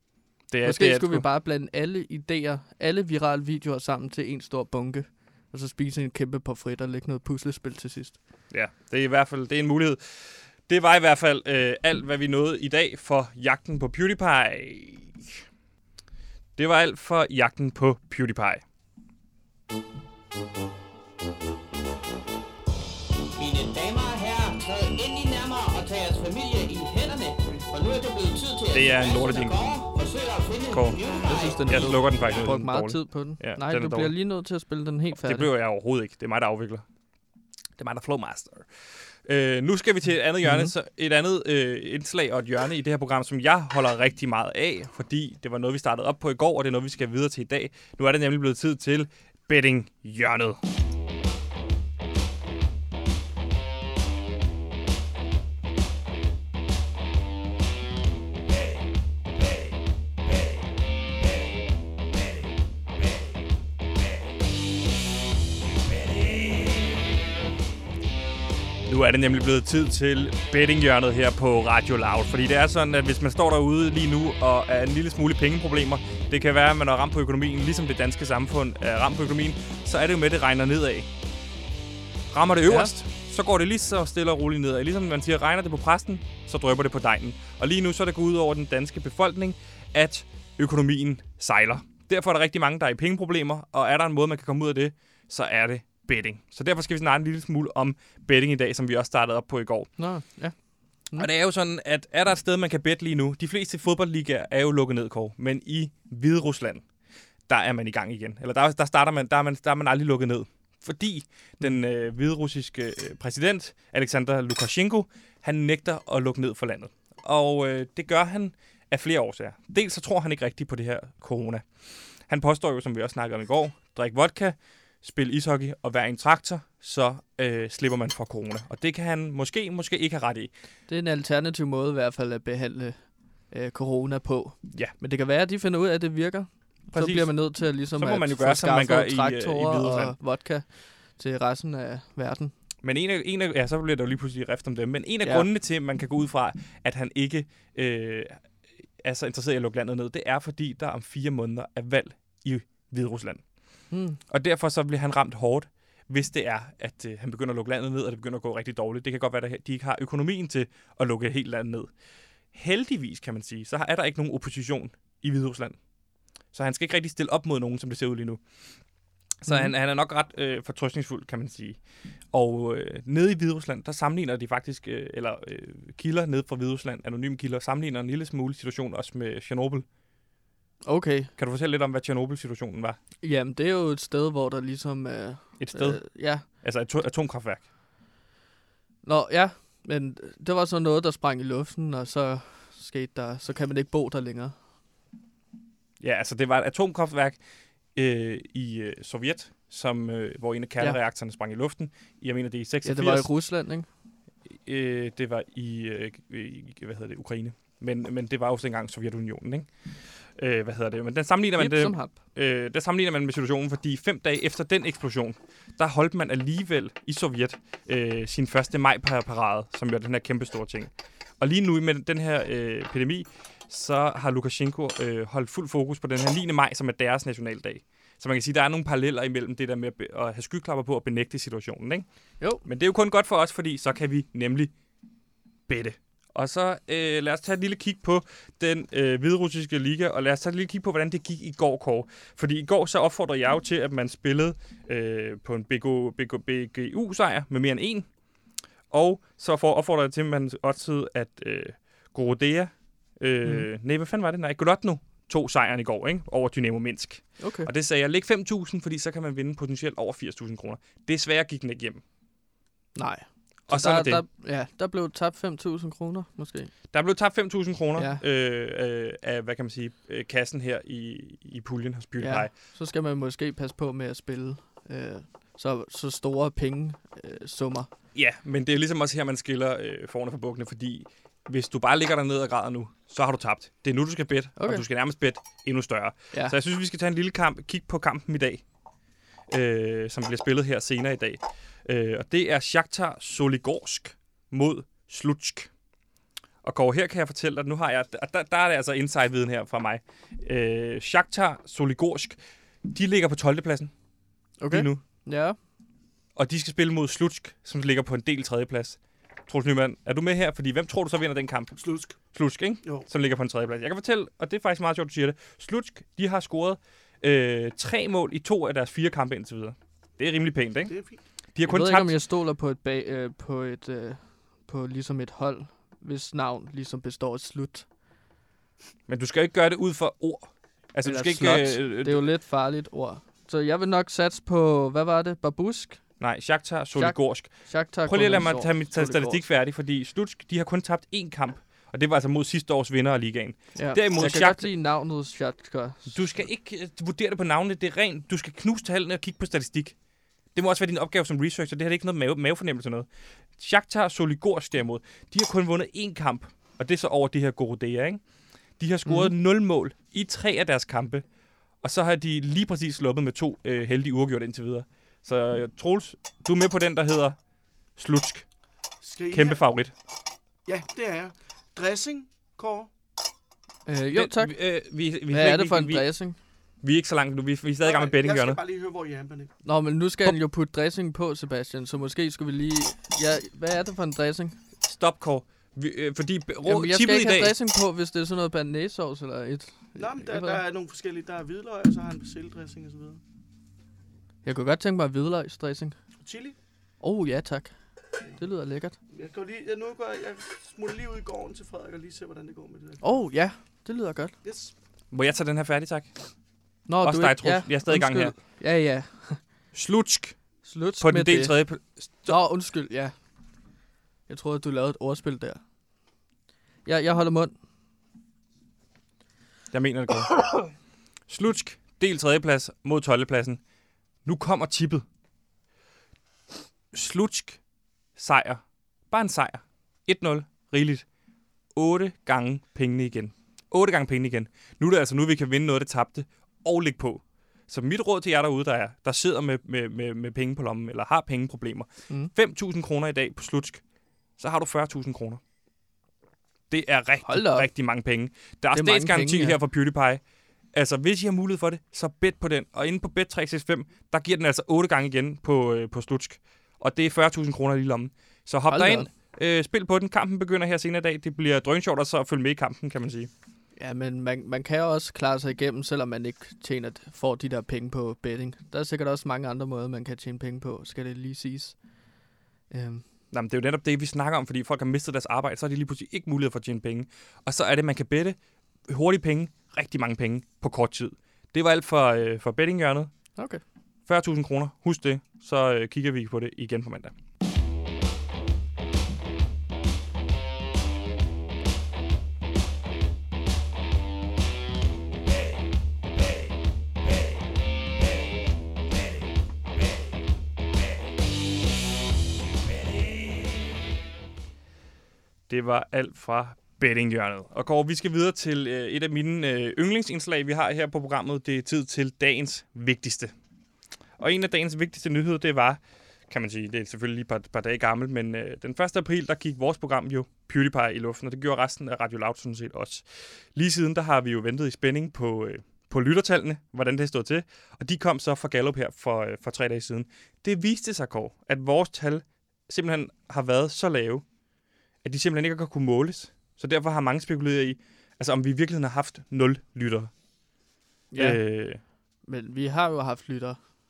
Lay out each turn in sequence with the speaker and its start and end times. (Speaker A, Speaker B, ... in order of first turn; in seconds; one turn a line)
Speaker A: 0.5-1.3
Speaker B: 0.6-8.2
Speaker A: 8.5-15.4
Speaker A: 16.6-18.6
Speaker C: 23.4-31.9
Speaker A: 28.7-29.6
Speaker A: 30.7-34.1
Speaker B: 31.2-35.5
Speaker A: 35.2-36.9
Speaker A: 37.8-50.6
Speaker B: 40.4-40.7
Speaker A: 68.8-81.1
Speaker A: 82.3-99.9
Speaker B: 82.7-82.9
Speaker B: 100.0-101.3
Speaker A: 101.2-106.9
Speaker A: 107.5-130.5
Speaker B: 130.9-142.5
Speaker A: 136.9-140.2
Speaker A: 142.8-153.5
Speaker B: 153.9-154.2
Speaker A: 154.3-161.9
Speaker A: 162.5-165.8
Speaker A: 166.5-168.4
Speaker A: 169.4-179.9
Speaker B: 169.5-169.7
Speaker B: 180.9-181.3
Speaker A: 181.4-183.0
Speaker B: 183.2-186.5
Speaker A: 185.6-187.7
Speaker B: 189.0-194.6
Speaker A: 196.0-197.4
Speaker A: 197.9-203.3
Speaker B: 202.8-203.9
Speaker A: 204.5-234.7
Speaker B: 211.6-212.2
Speaker B: 232.4-232.7
Speaker A: 235.7-248.1
Speaker A: 248.9-262.0
Speaker B: 257.4-257.7
Speaker B: 262.9-266.7
Speaker A: 263.7-264.2
Speaker A: 266.9-272.5
Speaker B: 268.0-268.2
Speaker B: 272.2-277.9
Speaker A: 278.1-288.6
Speaker B: 284.6-284.9
Speaker A: 289.5-295.7
Speaker A: 296.6-303.9
Speaker B: 304.6-305.6
Speaker A: 304.7-305.0
Speaker A: 306.4-321.0
Speaker D: 311.8-312.2
Speaker D: 320.9-321.2
Speaker A: 321.5-322.2
Speaker B: 321.6-327.9
Speaker A: 329.1-332.3
Speaker B: 331.0-336.2
Speaker A: 336.2-344.7
Speaker B: 336.9-339.4
Speaker B: 343.8-346.2
Speaker A: 346.1-350.0
Speaker A: 350.5-361.2
Speaker B: 359.1-359.3
Speaker A: 361.8-367.4
Speaker A: 368.0-368.5
Speaker D: 369.0-369.6
Speaker A: 369.3-369.9
Speaker D: 370.6-372.9
Speaker B: 373.9-374.6
Speaker A: 374.1-376.1
Speaker B: 375.3-376.4
Speaker A: 376.8-378.6
Speaker D: 377.8-379.5
Speaker B: 379.6-384.6
Speaker A: 384.8-387.6
Speaker B: 386.7-390.6
Speaker D: 390.0-393.2
Speaker B: 394.4-395.9
Speaker D: 396.2-396.6
Speaker B: 397.0-399.0
Speaker D: 399.1-403.0
Speaker B: 403.0-404.4
Speaker D: 404.4-404.7
Speaker A: 405.1-406.4
Speaker B: 406.9-409.4
Speaker A: 407.0-408.4
Speaker A: 409.7-412.4
Speaker B: 410.6-411.6
Speaker B: 412.2-413.2
Speaker B: 414.3-415.6
Speaker B: 416.9-417.5
Speaker A: 419.7-420.7
Speaker A: 421.3-423.6
Speaker A: 424.2-425.1
Speaker A: 426.9-427.6
Speaker A: 428.2-431.1
Speaker A: 431.7-443.8
Speaker A: 444.4-445.4
Speaker A: 446.7-463.3
Speaker B: 447.3-447.7
Speaker B: 448.7-449.6
Speaker B: 458.7-459.1
Speaker B: 463.8-471.8
Speaker B: 472.7-473.0
Speaker A: 473.3-483.1
Speaker B: 483.4-483.6
Speaker A: 484.1-487.1
Speaker A: 505.5-513.3
Speaker A: 514.2-534.2
Speaker A: 535.0-540.1
Speaker B: 541.1-541.4
Speaker A: 541.2-541.8
Speaker B: 542.2-543.7